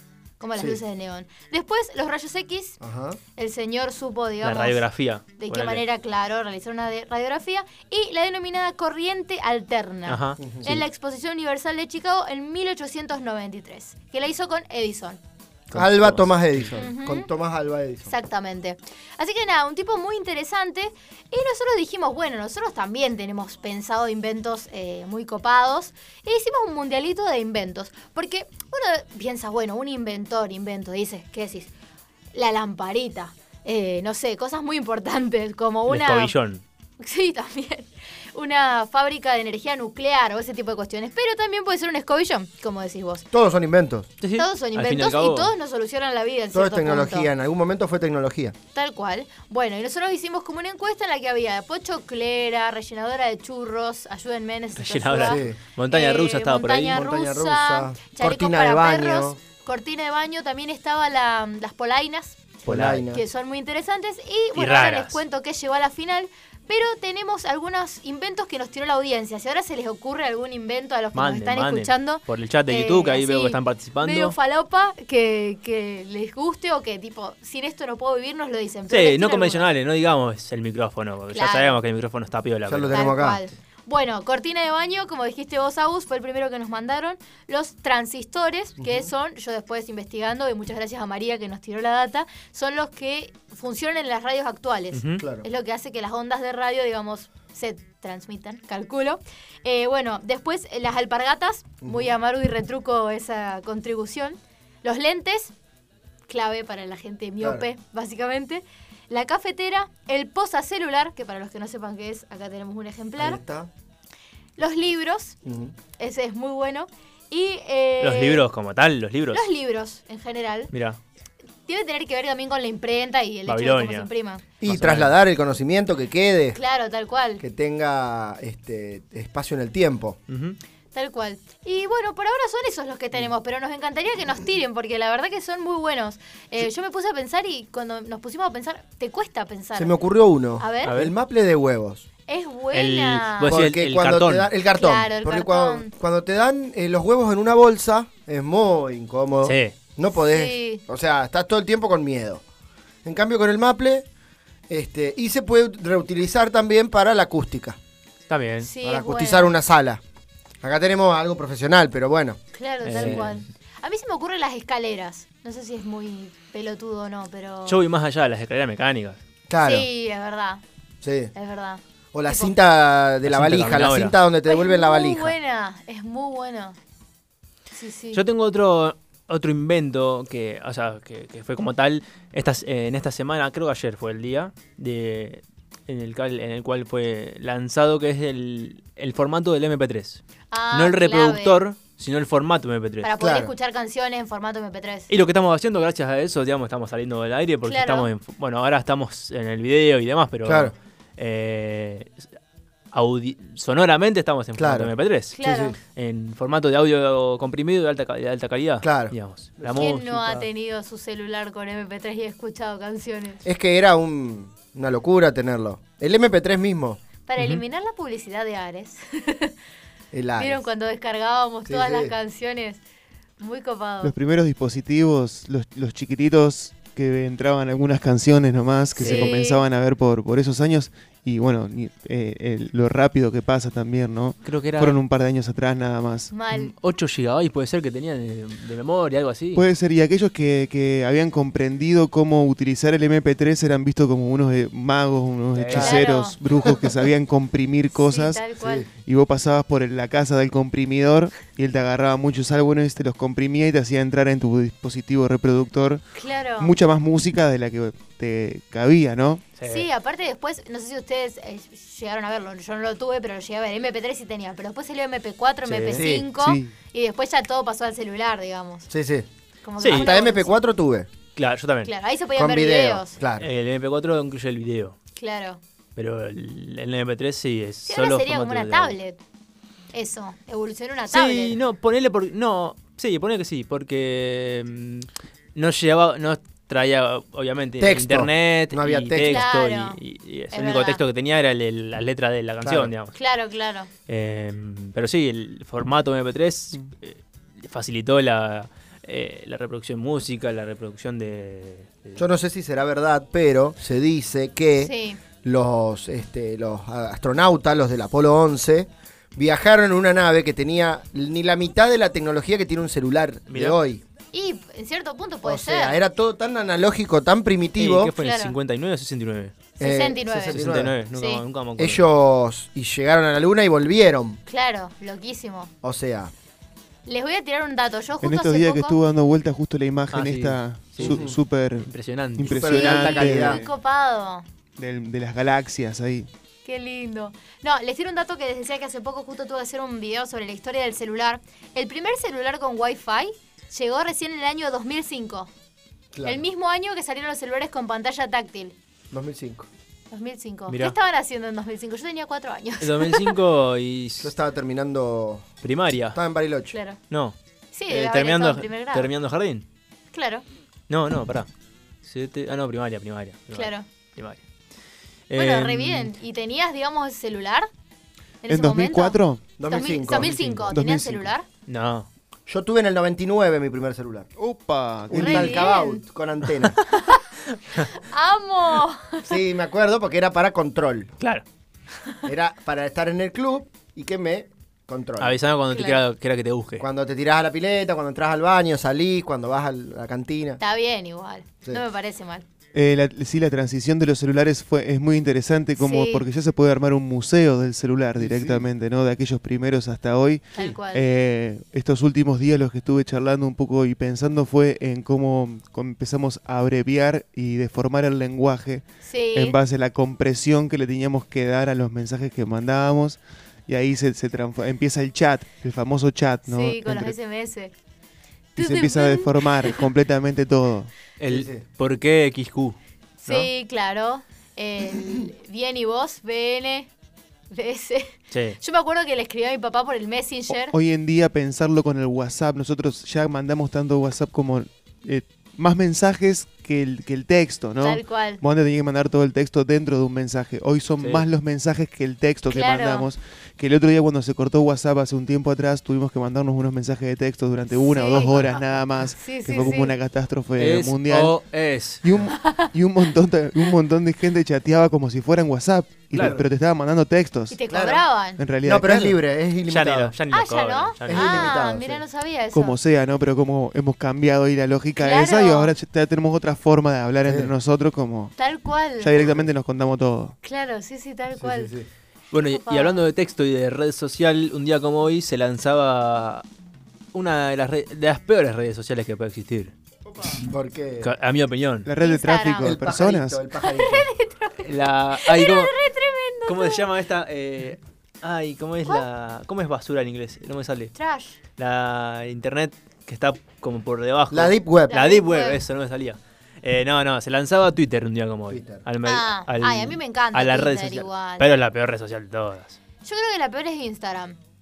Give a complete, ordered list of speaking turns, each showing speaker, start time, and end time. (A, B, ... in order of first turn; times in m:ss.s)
0:00.4-0:02.8 A
0:02.8-0:03.2 B
0:03.4-0:04.8 A
0:04.4-0:05.8 C
0:05.4-0:15.2 A
0:10.1-0:10.8 C
0:10.4-0:10.8 B
0:15.7-0:18.1 B
0:15.7-0:16.8 C
0:16.8-0:17.3 A
0:18.0-0:31.7 A
0:32.3-0:36.4 A
0:35.9-0:36.6 C
0:37.0-0:43.2 A
0:43.3-0:44.1 B
0:44.2-0:45.5 C
0:44.4-0:47.3 A
0:46.5-0:48.5 B
0:48.7-1:02.5 A
0:54.8-0:57.0 C
0:55.2-0:55.6 B
0:56.9-0:59.4 B
1:02.6-1:03.2 B
1:02.6-1:03.0 C
1:03.1-1:19.7 A
1:04.5-1:05.2 C
1:11.1-1:14.3 C
1:18.9-1:23.3 C
1:21.3-1:21.8 A
1:22.6-1:23.4 B
1:22.9-1:45.5 A
1:28.8-1:29.1 B
1:34.9-1:35.2 C
1:35.2-1:35.4 B
1:41.8-1:42.1 B
1:46.3-1:53.4 A
1:47.4-1:47.6 B
1:53.2-1:53.7 B
1:54.6-1:55.4 A
1:55.4-1:55.7 B
1:56.0-1:58.4 A
1:58.0-1:59.4 C
1:59.3-2:00.7 A
2:00.7-2:01.0 C
2:01.7-2:04.4 A
2:03.5-2:04.1 C
2:04.6-2:06.6 B
2:04.6-2:05.1 C
2:06.5-2:07.4 A
2:07.4-2:10.2 B
2:10.3-2:10.6 C
2:10.9-2:19.9 A
2:19.8-2:22.0 B
2:20.6-2:20.9 A
2:20.8-2:21.1 C
2:22.3-2:23.6 A
2:22.7-2:24.5 C
2:23.4-2:32.4 B
2:24.7-2:25.9 A
2:29.4-2:29.7 C
2:30.1-2:30.8 A
2:33.0-2:34.0 B
2:34.7-2:37.8 B
2:38.3-2:38.7 C
2:38.6-2:39.5 A
2:38.8-2:40.0 B
2:40.6-2:42.4 B
2:42.5-2:47.8 A
2:42.8-2:43.4 C
2:42.9-2:43.2 B
2:47.6-2:49.2 C
2:49.5-2:49.9 B
2:49.6-2:50.6 A
2:51.0-2:51.3 B
2:51.3-2:52.5 A
2:52.1-2:55.3 B
2:53.2-2:54.2 C
2:54.4-2:56.8 A
2:57.7-2:58.2 A
2:58.1-3:13.1 C
3:10.5-3:11.6 A
3:13.0-3:15.1 A
3:13.2-3:13.5 B
3:15.1-3:22.2 C
3:17.6-3:18.1 A
3:20.4-3:20.7 B
3:22.9-3:30.4 C
3:24.6-3:25.8 B
3:25.3-3:25.8 A
3:28.8-3:30.0 B
3:29.8-3:33.4 A
3:33.4-3:37.0 B
3:37.3-3:39.5 A
3:37.4-3:37.6 C
3:40.1-3:40.6 B
3:40.4-3:42.8 A
3:41.6-3:42.1 B
3:43.4-3:44.1 A
3:44.0-3:56.3 D
3:49.0-3:49.6 A
3:54.4-3:55.0 C
3:56.3-3:56.7 A
3:56.5-3:59.6 C
3:59.5-4:08.4 D
4:05.5-4:06.0 C
4:05.7-4:06.4 A
4:07.9-4:08.8 A
4:08.6-4:08.9 B
4:09.0-4:16.0 D
4:16.1-4:16.7 A
4:16.6-4:19.4 D
4:19.6-4:19.9 C
4:19.6-4:28.9 A
4:25.6-4:26.1 C
4:25.9-4:26.3 B
4:26.3-4:26.7 D
4:28.9-4:29.3 B
4:29.6-4:30.5 A
4:29.8-4:30.1 C
4:29.8-4:31.1 B
4:31.4-4:31.9 C
4:31.8-4:33.2 A
4:32.4-4:33.5 B
4:33.4-4:35.0 C
4:35.2-4:35.6 A
4:36.0-4:38.9 C
4:37.9-4:39.2 A
4:39.9-4:41.6 A
4:41.1-4:53.1 C
4:47.8-4:49.4 B
4:49.2-4:50.0 A
4:50.5-4:51.0 A
4:52.6-4:52.9 B
4:53.1-4:53.9 A
4:54.1-5:02.2 C
5:02.2-5:14.0 B
5:04.8-5:05.2 A
5:13.5-5:13.8 C
5:14.3-5:16.0 A
5:15.4-5:18.1 B
5:17.8-5:19.5 C
5:18.2-5:18.5 A
5:19.8-5:21.0 B
5:19.8-5:21.4 A
5:20.5-5:22.1 C
5:21.8-5:24.4 B
5:24.4-5:25.7 A
5:25.8-5:26.3 B
5:27.0-5:29.0 A
5:28.2-5:33.7 D
5:30.1-5:31.2 C
5:31.0-5:31.3 B
5:31.8-5:33.4 C
5:32.4-5:33.6 B
5:33.0-5:34.4 A
5:34.8-5:36.3 D
5:36.6-5:45.5 A
5:46.1-5:46.4 B
5:46.2-5:48.7 A
5:49.1-5:49.7 B
5:50.1-5:53.4 A
5:50.7-5:50.9 C
5:52.8-5:54.3 C
5:54.2-5:55.5 B
5:55.6-5:56.2 C
5:56.1-5:56.8 B
5:56.7-5:57.0 A
5:57.1-5:57.4 C
5:57.7-5:59.1 A
5:57.9-5:59.6 C
6:00.1-6:00.4 A
6:00.9-6:01.5 C
6:02.0-6:04.4 C
6:03.5-6:03.8 A
6:05.3-6:06.2 C
6:05.3-6:07.7 A
6:08.4-6:11.4 A
6:08.5-6:09.4 D
6:09.6-6:10.7 B
6:10.7-6:11.3 D
6:11.7-6:12.1 C
6:12.5-6:14.3 B
6:14.4-6:15.8 D
6:15.1-6:16.8 B
6:15.1-6:16.0 A
6:16.9-6:17.2 A
6:17.8-6:19.3 A
6:19.3-6:21.1 B
6:22.2-6:25.4 B
6:25.2-6:26.8 C
6:25.7-6:26.0 A
6:26.8-6:30.6 B
6:30.6-6:32.4 A
6:32.7-6:57.1 D
6:35.8-6:36.2 A
6:38.2-6:38.6 B
6:40.5-6:41.0 A
6:49.0-6:49.6 A
6:56.4-6:57.7 A
6:58.6-6:59.8 A
6:58.6-7:00.9 D
7:01.2-7:03.5 C
7:01.3-7:01.6 B
7:03.2-7:06.9 A
7:07.5-7:10.7 A
7:08.3-7:08.6 C
7:10.5-7:31.4 D
7:17.8-7:18.4 A
7:22.5-7:23.1 A
7:27.7-7:29.9 A
7:30.6-7:32.0 C
7:32.0-7:37.6 D
7:32.4-7:32.7 A
7:36.1-7:36.4 C
7:36.2-7:36.4 B
7:37.5-7:38.4 A
7:37.7-7:38.0 B
7:38.4-7:39.2 D
7:38.6-7:40.1 B
7:39.7-7:41.6 C
7:40.3-7:42.8 A
7:41.1-7:42.0 B
7:42.5-7:48.3 D
7:45.0-7:45.7 A
7:48.4-7:49.1 A
7:49.0-7:50.3 D
7:49.2-7:49.4 B
7:50.4-7:51.7 A
7:51.4-7:51.9 B
7:52.3-7:56.4 C
7:52.4-7:53.0 A
7:57.1-7:59.7 C
8:00.4-8:01.1 B
8:01.0-8:01.9 C
8:01.8-8:03.4 D
8:02.0-8:02.8 A
8:02.6-8:04.1 B
8:03.6-8:06.8 A
8:04.6-8:05.7 C
8:06.4-8:10.9 C
8:10.9-8:11.4 A
8:11.6-8:22.8 C
8:14.3-8:14.9 B
8:14.9-8:15.6 A
8:18.5-8:18.8 B
8:19.0-8:21.5 A
8:23.0-8:24.4 A